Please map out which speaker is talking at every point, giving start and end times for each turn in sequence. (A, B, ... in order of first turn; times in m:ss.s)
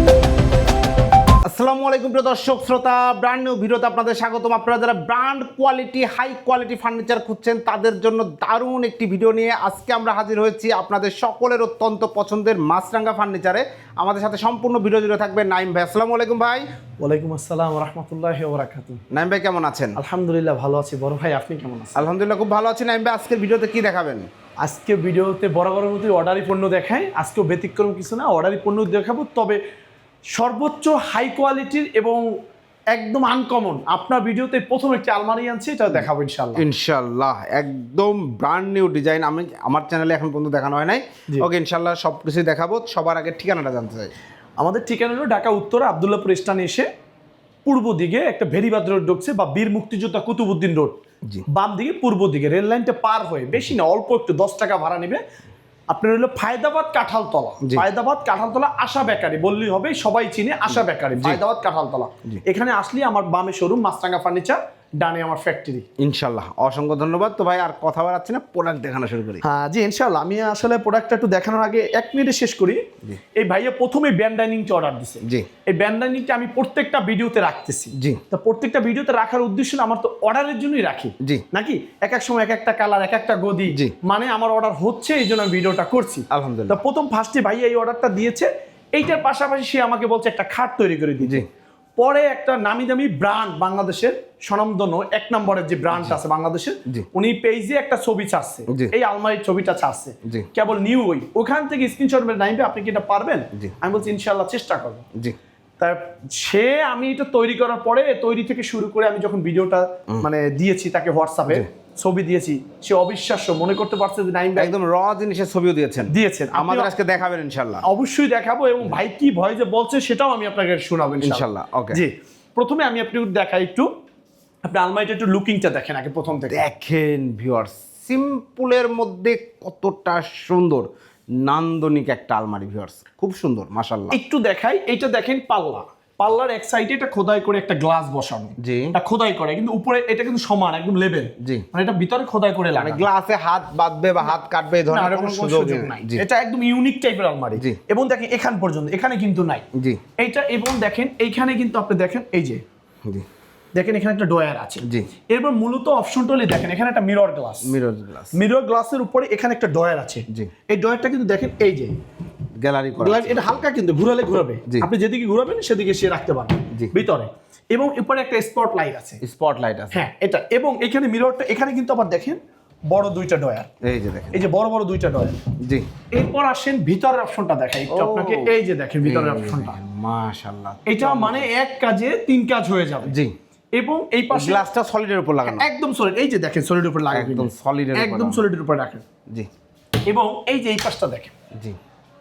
0:01.5-0:16.6 A
0:17.0-0:19.0 B
0:19.1-0:20.0 A
0:20.0-0:22.0 B
0:22.0-0:24.2 A
0:24.6-0:29.6 B
0:30.3-0:32.2 B
0:32.9-0:36.6 B
0:36.6-0:44.1 A
0:44.6-0:46.9 B
0:47.6-0:50.9 B
0:51.5-0:55.2 B
0:55.9-1:05.9 B
1:00.7-1:01.4 A
1:06.0-1:09.4 A
1:09.4-1:12.8 B
1:13.4-1:31.4 B
1:26.3-1:26.8 A
1:32.0-1:45.0 B
1:35.9-1:36.2 A
1:45.8-1:54.7 B
1:54.6-1:57.8 A
1:56.1-1:56.9 B
1:57.8-2:03.9 B
2:01.2-2:02.0 A
2:04.6-2:06.6 B
2:06.5-2:10.9 A
2:11.4-2:14.2 A
2:14.1-2:23.1 B
2:18.6-2:18.9 A
2:22.8-2:26.2 A
2:24.9-2:29.6 B
2:30.2-2:32.6 B
2:33.8-2:37.8 B
2:34.8-2:35.1 A
2:37.6-2:38.4 A
2:38.3-2:41.9 B
2:42.6-2:43.5 A
2:43.0-2:49.2 B
2:49.2-2:50.0 A
2:49.9-2:53.7 B
2:53.8-2:54.4 A
2:54.3-2:55.4 B
2:55.6-2:55.9 A
2:56.1-2:59.8 B
2:57.9-3:01.5 A
3:00.9-3:03.2 B
3:03.1-3:03.3 A
3:03.8-3:04.6 B
3:04.3-3:05.7 A
3:05.4-3:09.0 B
3:07.1-3:08.4 A
3:10.1-3:11.3 B